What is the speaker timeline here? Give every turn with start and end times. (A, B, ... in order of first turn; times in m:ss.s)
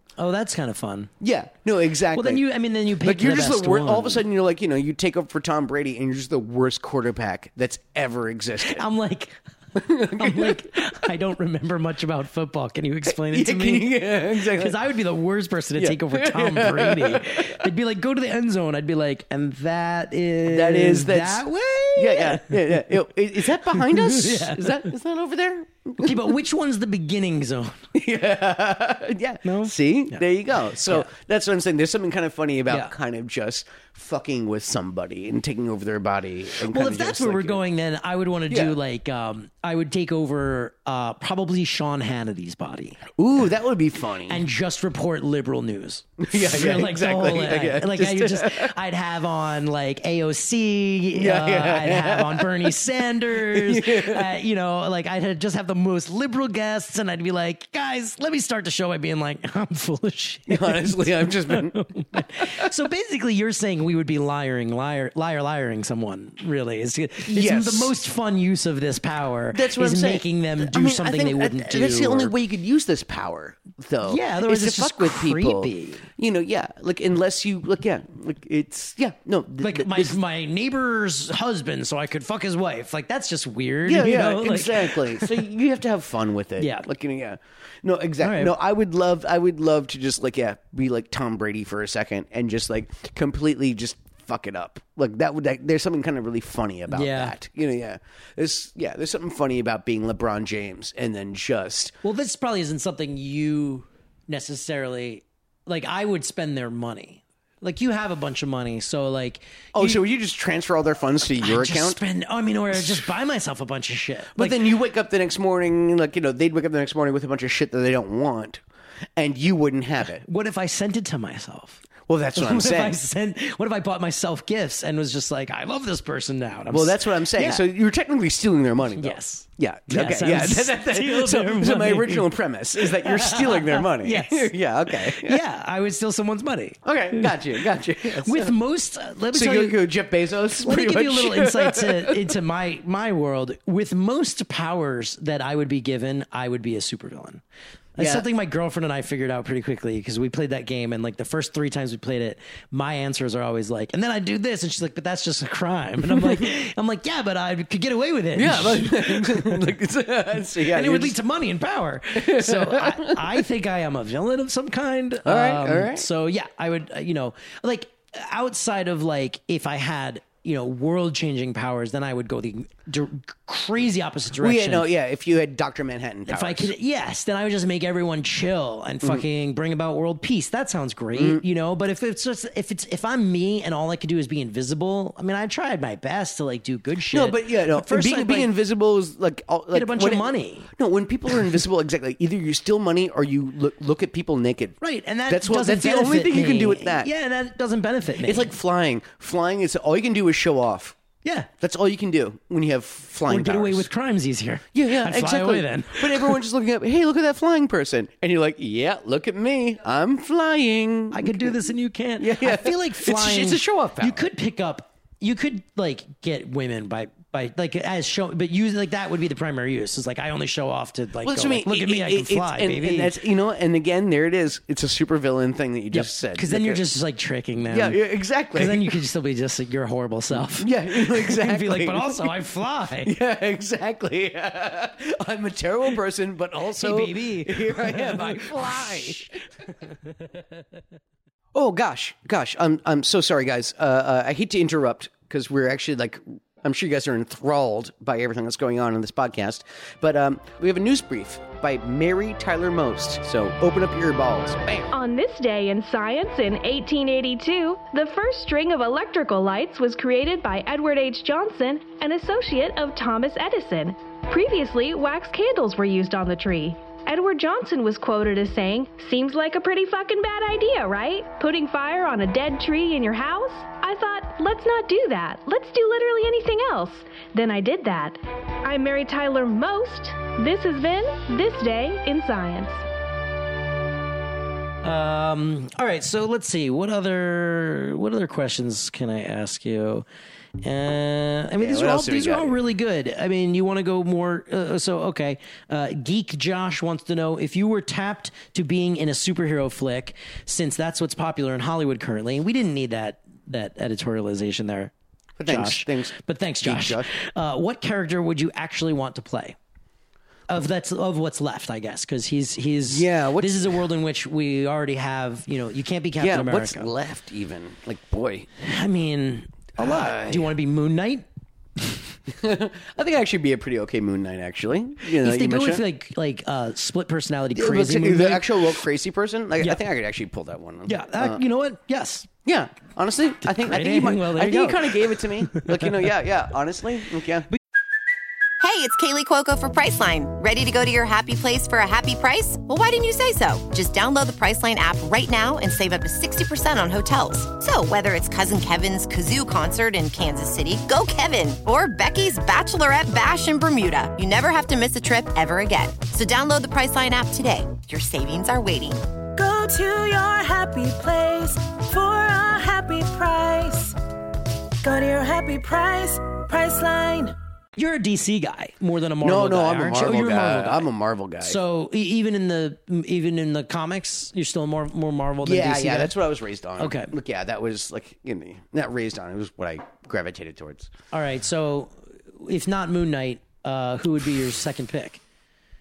0:00.2-0:01.1 A
0:01.2-0:02.5 B
0:02.1-0:04.2 A
0:03.0-0:08.8 B
0:08.6-0:22.9 A
0:09.8-0:11.0 B
0:13.1-0:14.8 B
0:15.8-0:17.7 B
0:20.4-0:26.3 B
0:23.6-0:24.8 A
0:26.0-0:27.9 A
0:27.9-0:37.6 B
0:29.4-0:30.2 A
0:30.8-0:31.1 A
0:32.7-0:32.9 A
0:36.7-0:43.1 A
0:38.5-0:38.8 B
0:43.2-0:44.4 B
0:44.3-1:12.3 A
0:46.2-0:48.7 B
0:51.1-0:52.8 B
0:53.3-0:54.3 B
1:00.5-1:02.7 B
1:07.2-1:07.9 B
1:09.5-1:20.2 B
1:14.0-1:16.1 A
1:19.6-1:25.4 A
1:23.8-1:42.0 B
1:26.6-1:26.9 A
1:28.2-1:28.6 A
1:36.9-1:37.4 A
1:42.0-1:50.0 A
1:49.8-1:52.0 B
1:51.4-1:54.6 A
1:54.3-1:58.6 B
1:59.2-2:00.2 B
2:00.2-2:01.8 A
2:02.1-2:03.0 B
2:02.4-2:07.6 A
2:06.7-2:15.4 B
2:09.0-2:19.8 A
2:16.8-2:18.6 B
2:19.3-2:22.4 B
2:20.6-2:27.4 A
2:28.0-2:39.6 A
2:28.0-2:28.3 B
2:36.1-2:36.4 B
2:38.3-2:41.2 B
2:40.6-2:54.9 A
2:42.2-2:43.4 B
2:45.2-2:46.1 B
2:54.4-2:56.7 B
2:56.3-3:08.5 A
3:01.2-3:01.4 B
3:07.1-3:17.1 B
3:09.7-3:10.7 A
3:14.8-3:18.5 A
3:18.2-3:21.0 B
3:21.2-3:21.5 A
3:21.6-3:23.9 B
3:23.3-3:26.4 A
3:24.7-3:31.6 B
3:31.1-3:43.1 A
3:32.2-3:34.3 B
3:41.2-3:46.8 B
3:45.9-3:48.0 A
3:47.7-3:49.0 B
3:48.5-3:53.1 A
3:50.3-3:52.4 B
3:53.0-3:59.4 B
3:56.8-3:59.4 A
4:01.5-4:14.9 B
4:14.9-4:42.8 C
4:44.8-4:50.0 A
4:50.6-5:04.9 A
4:51.6-4:52.6 B
5:05.4-5:07.1 B
5:05.5-5:09.6 A
5:10.5-5:16.9 A
5:12.9-5:13.8 B
5:16.2-5:18.5 B
5:18.6-5:21.3 A
5:19.8-5:20.5 B
5:22.3-5:25.8 B
5:25.2-5:28.6 A
5:27.5-5:31.4 B
5:30.9-5:32.3 A
5:32.4-5:37.5 B
5:33.5-5:36.0 A
5:38.6-5:59.1 D
5:59.4-6:04.0 E
6:04.8-6:07.4 E
6:07.8-6:10.9 A
6:09.2-6:11.6 B
6:11.4-6:16.2 A
6:15.4-6:20.9 B
6:16.8-6:17.1 A
6:21.1-6:25.2 A